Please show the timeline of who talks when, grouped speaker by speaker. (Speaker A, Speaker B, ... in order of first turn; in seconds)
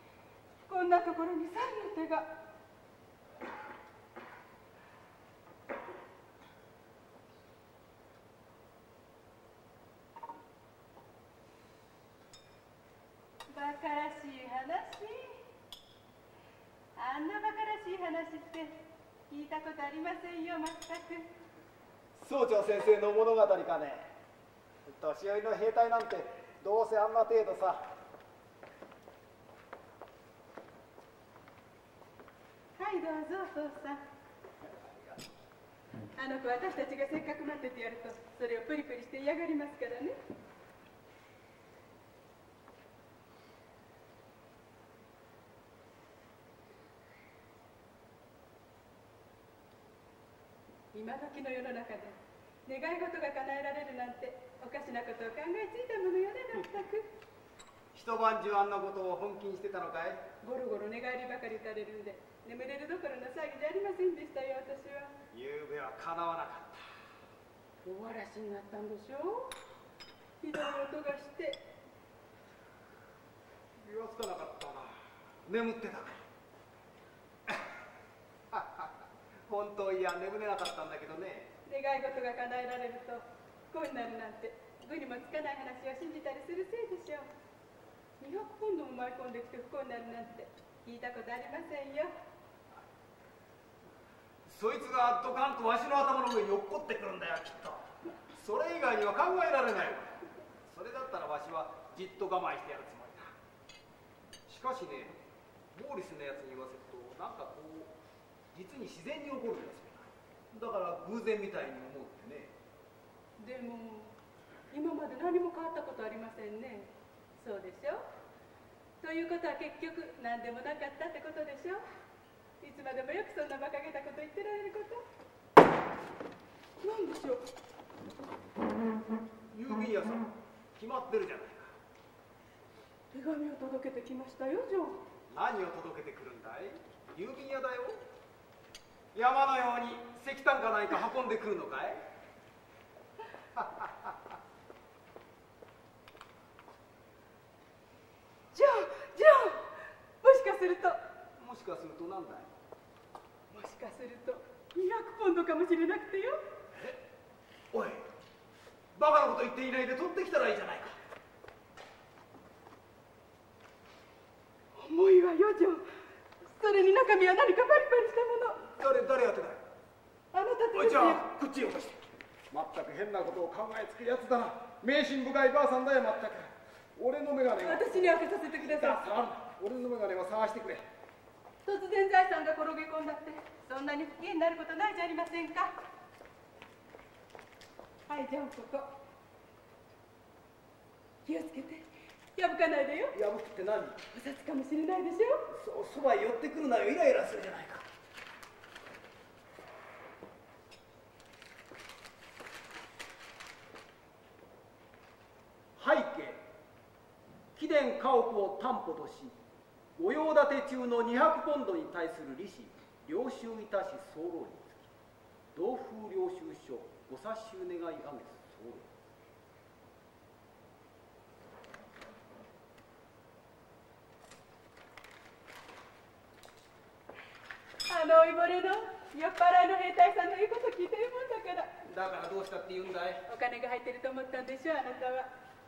Speaker A: 0.7-2.3, 13.5-15.4, 16.9-18.8, 19.3-21.3, 32.8-34.0, 36.2-40.2, 50.9-57.1, 60.4-65.1, 67.8-69.5, 70.4-71.6, 81.7-87.3, 88.2-92.1, 113.4-114.1, 114.7-118.1, 119.0-121.8, 122.6-125.0, 126.8-127.5, 133.1-135.0, 148.5-149.7, 150.2-151.0, 153.5-156.4, 164.8-165.9, 166.5-168.6, 170.3-171.2, 177.6-179.0, 181.7-185.7, 188.1-188.9, 191.3-191.8, 192.4-193.2, 194.1-195.4, 227.9-231.7, 233.3-235.3
Speaker B: 22.2-24.1, 24.9-27.9, 34.8-35.2, 57.9-60.2, 65.3-66.9, 73.8-76.2, 78.5-81.5, 94.5-103.3, 104.5-105.2, 105.7-108.0, 108.5-112.5, 129.5-131.7, 135.3-138.0, 139.1-142.0, 143.6-144.3, 151.4-152.5, 156.7-157.0, 157.7-158.1, 158.9-161.0, 168.6-169.6, 170.7-180.8, 193.1-194.0, 195.5-197.8, 205.8-206.4, 207.6-209.4, 210.0-214.9, 215.5-218.9, 231.8-233.2